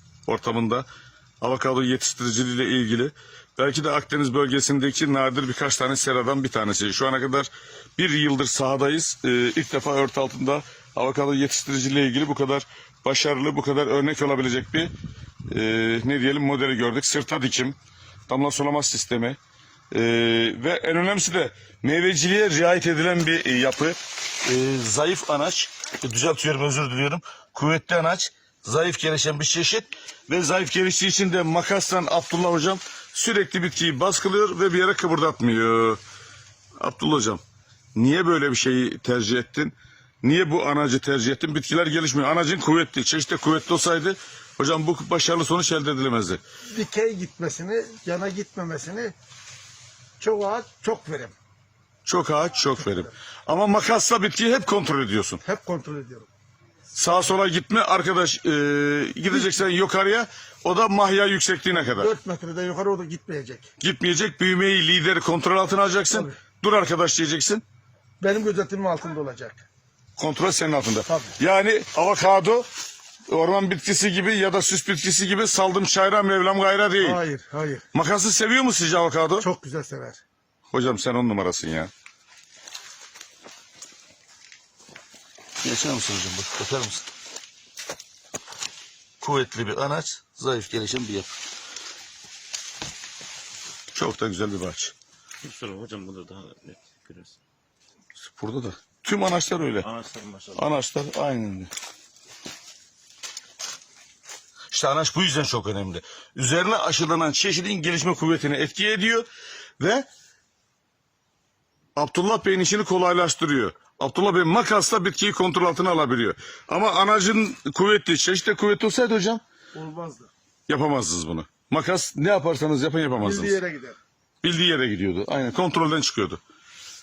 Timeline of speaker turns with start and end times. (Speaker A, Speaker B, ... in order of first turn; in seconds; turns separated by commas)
Speaker A: 0.3-0.9, Speaker A: 1.4-14.9, Speaker A: 15.5-17.8, Speaker A: 18.3-19.4, Speaker A: 19.9-36.0, Speaker A: 36.8-37.4, Speaker A: 38.0-46.4, Speaker B: 46.7-49.1, Speaker B: 50.2-51.4, Speaker A: 52.0-55.4, Speaker B: 55.4-56.3, Speaker A: 56.9-62.1, Speaker B: 61.7-63.7, Speaker A: 63.8-67.6, Speaker B: 68.2-69.7, Speaker A: 70.2-72.7, Speaker B: 71.1-71.3, Speaker A: 73.3-77.2, Speaker B: 77.0-77.9, Speaker A: 77.9-79.5, Speaker B: 79.4-80.2, Speaker A: 80.7-81.9, Speaker A: 85.6-87.1, Speaker A: 89.2-91.3, Speaker A: 93.9-94.9, Speaker C: 95.4-97.4, Speaker A: 98.2-99.9, Speaker C: 99.8-100.6, Speaker A: 100.5-101.7, Speaker A: 104.7-109.3, Speaker A: 109.8-110.1, Speaker A: 112.0-119.4, Speaker B: 119.7-120.3, Speaker A: 120.7-123.6, Speaker B: 123.2-124.0, Speaker A: 124.4-126.4